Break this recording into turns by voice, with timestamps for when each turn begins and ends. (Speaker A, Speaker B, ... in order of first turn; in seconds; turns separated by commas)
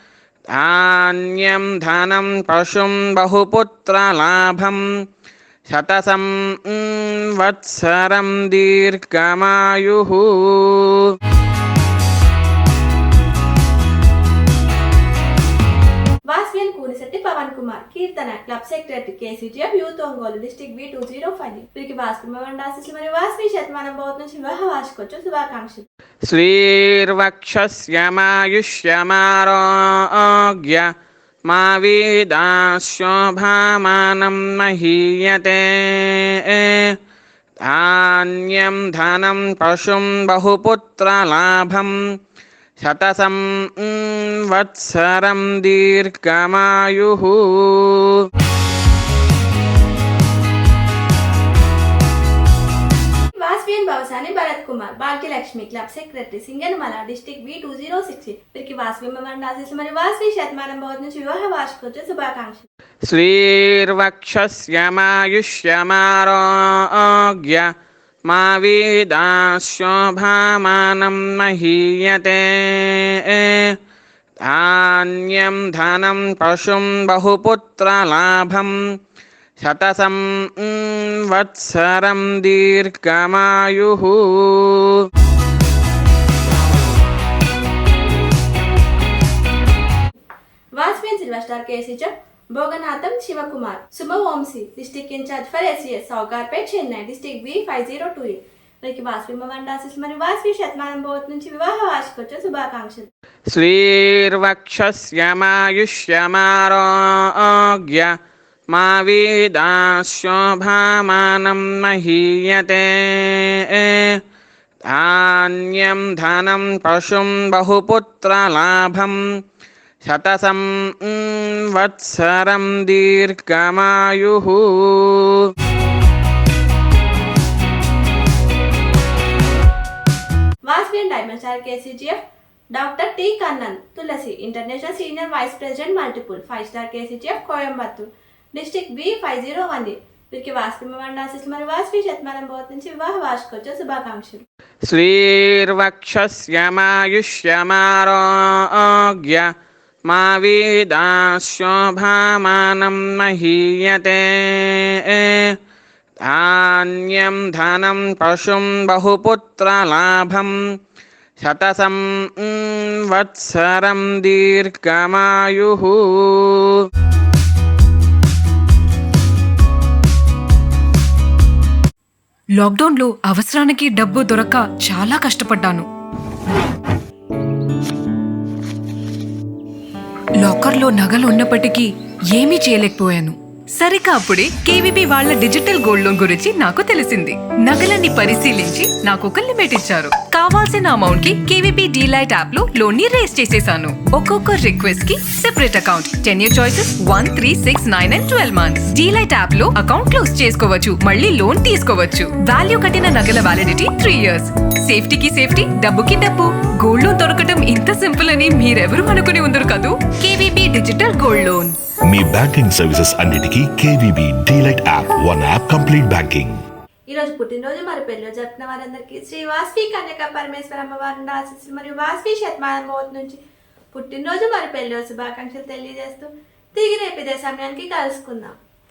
Speaker A: 0.5-4.8, Speaker A: 5.7-11.1, Speaker B: 16.3-25.9, Speaker A: 26.3-30.9, Speaker A: 31.5-37.0, Speaker A: 37.6-42.0, Speaker A: 42.8-48.2, Speaker B: 53.4-62.6, Speaker A: 63.1-67.7, Speaker A: 68.3-73.8, Speaker A: 74.4-78.8, Speaker A: 79.6-85.0, Speaker B: 90.8-103.1, Speaker A: 103.5-108.1, Speaker A: 108.7-114.2, Speaker A: 114.9-119.2, Speaker A: 120.0-125.5, Speaker B: 130.6-144.4, Speaker A: 144.9-149.5, Speaker A: 150.1-155.6, Speaker A: 156.2-160.6, Speaker A: 161.4-166.8, Speaker C: 172.6-175.9, Speaker C: 180.4-211.8, Speaker D: 212.1-216.6, Speaker B: 217.1-223.4, Speaker B: 223.9-228.6